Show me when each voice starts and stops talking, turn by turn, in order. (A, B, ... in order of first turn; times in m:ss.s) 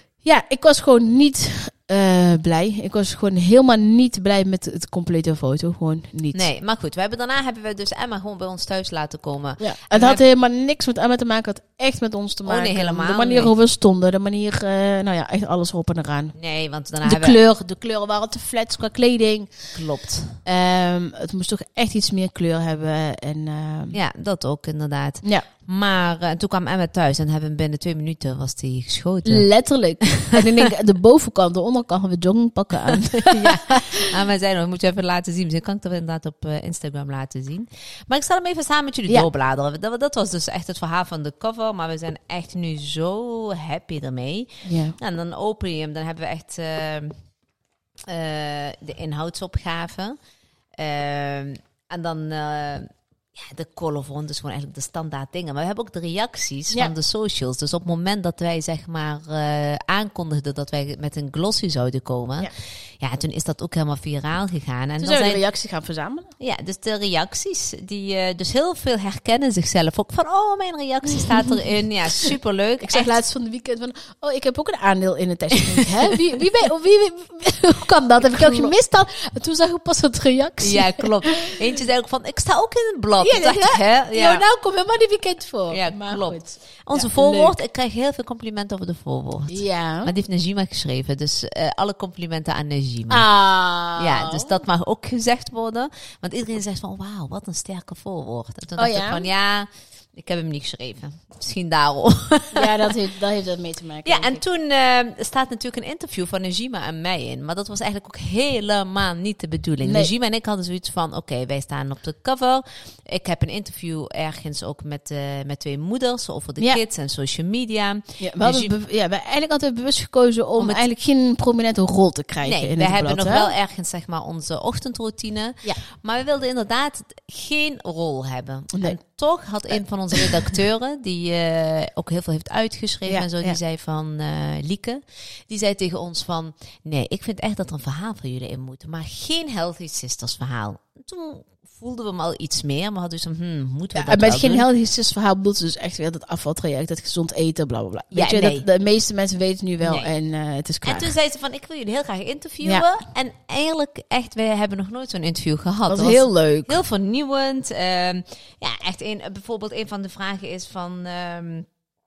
0:00.2-0:06.4 A
0:06.3-0:10.2 B
0:09.6-0:16.3 A
0:12.4-0:13.5 B
0:16.4-0:17.4 B
0:17.0-0:19.8 A
0:19.7-0:20.4 B
0:20.4-0:24.0 A
0:23.9-0:29.5 B
0:29.3-0:34.1 A
0:30.0-0:30.7 B
0:32.9-0:47.2 B
0:44.6-0:45.0 A
0:48.1-0:50.2 B
0:50.8-1:05.4 B
1:05.0-1:06.3 A
1:06.4-1:13.2 B
1:12.8-1:21.6 A
1:18.2-1:18.7 B
1:20.6-1:24.4 B
1:23.2-1:27.6 A
1:25.7-1:33.3 B
1:29.5-1:30.1 A
1:33.1-1:34.6 A
1:34.0-1:42.9 B
1:38.8-1:39.3 A
1:42.5-1:44.4 A
1:44.0-1:58.7 B
1:49.8-1:50.1 A
1:58.2-2:03.5 A
2:00.6-2:00.8 B
2:02.4-2:24.7 B
2:13.1-2:13.6 A
2:23.9-2:31.1 A
2:28.1-2:28.6 B
2:29.8-2:30.1 B
2:30.8-2:41.7 B
2:35.9-2:36.8 A